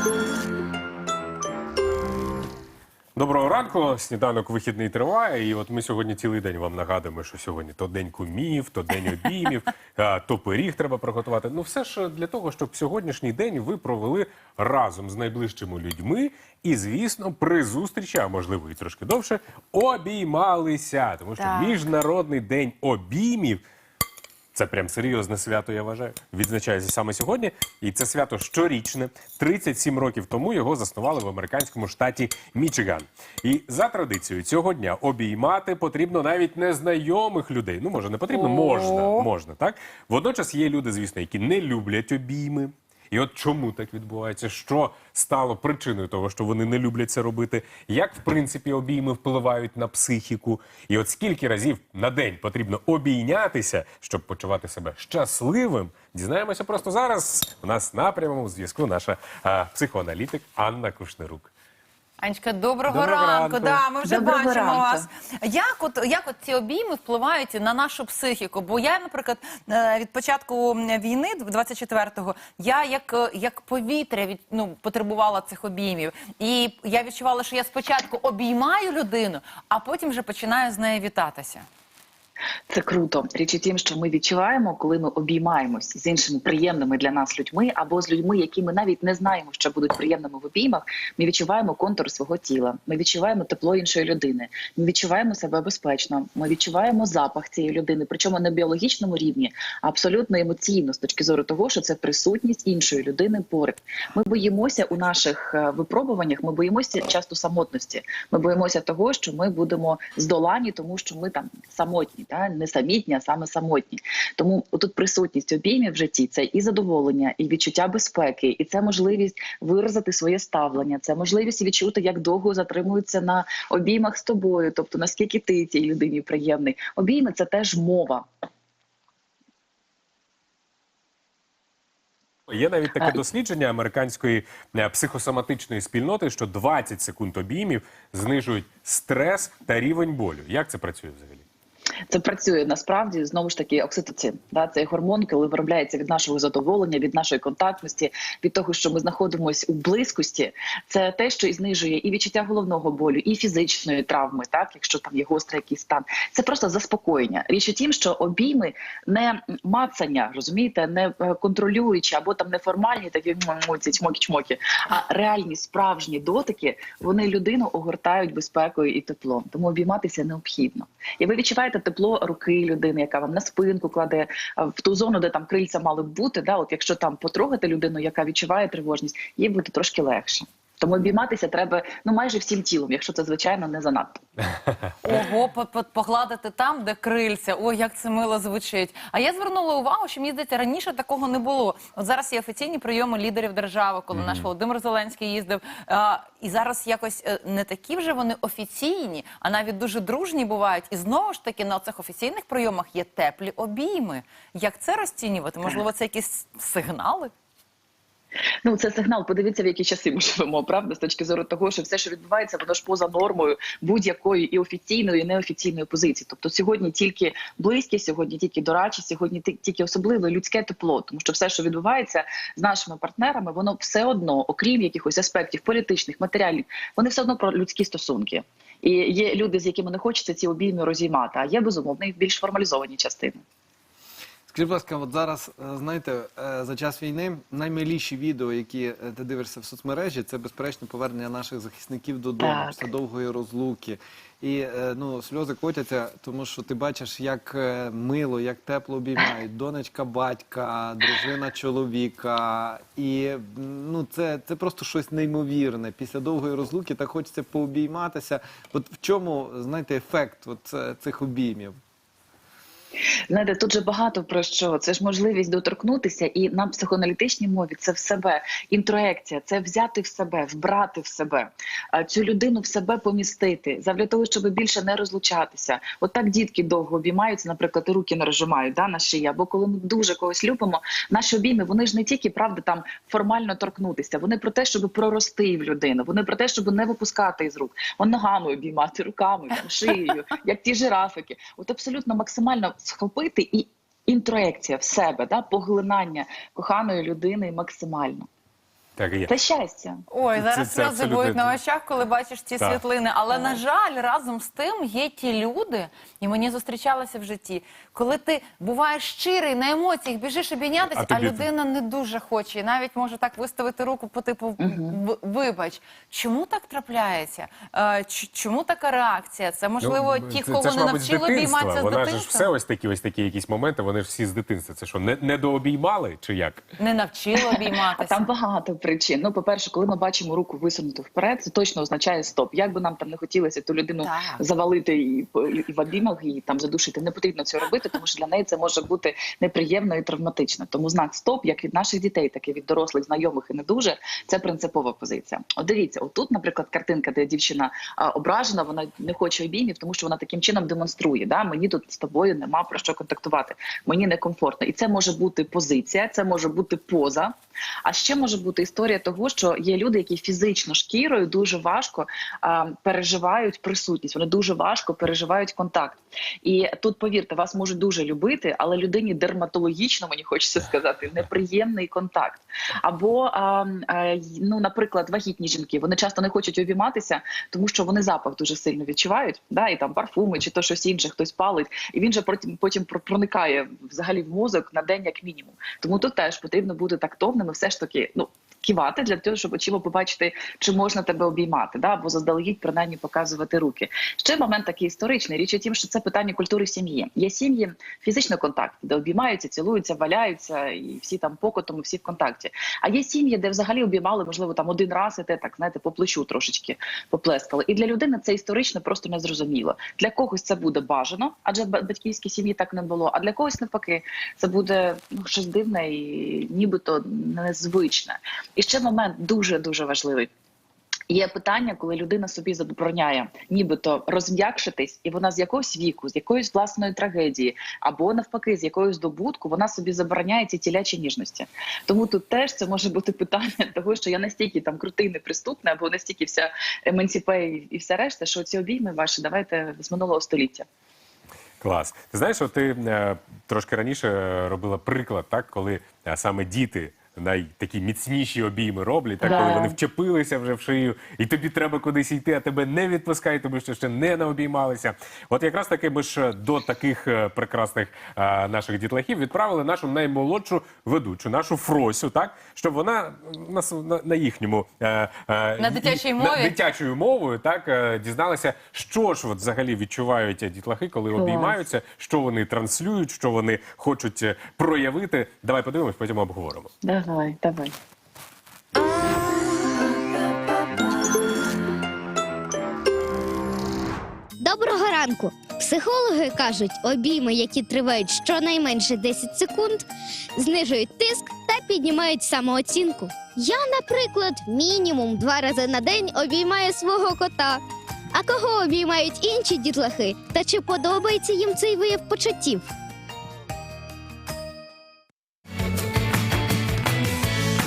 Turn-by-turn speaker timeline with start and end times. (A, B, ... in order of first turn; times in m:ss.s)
0:03.2-0:23.6 A
0:21.4-0:21.8 B
0:24.5-1:01.5 A
0:38.3-0:39.3 B
1:02.2-1:21.7 B
1:02.9-1:03.9 A
1:04.0-1:05.1 C
1:22.7-2:08.3 C
2:12.5-2:21.4 A
2:22.1-3:04.2 C
3:05.0-3:27.3 B
3:14.1-3:14.5 A
3:28.6-3:53.4 C
3:54.5-4:21.8 D
4:02.4-4:02.9 C
4:23.3-4:58.3 C
4:59.0-4:59.3 A
4:59.3-5:00.0 C
5:00.1-5:22.5 B
5:00.4-5:01.6 A
5:02.6-5:02.8 A
5:10.9-5:11.5 A
5:14.6-5:15.0 C
5:19.8-5:26.6 A
5:26.8-5:28.3 B
5:27.4-5:57.3 C
5:34.0-5:34.4 B
5:57.8-7:00.3 C
7:01.1-7:20.7 C
7:21.6-7:56.7 A
7:29.2-7:29.8 C
7:45.6-7:46.6 B
7:51.1-7:51.6 C
7:56.8-7:57.7 C
8:04.4-8:17.6 E
8:18.1-8:22.7 E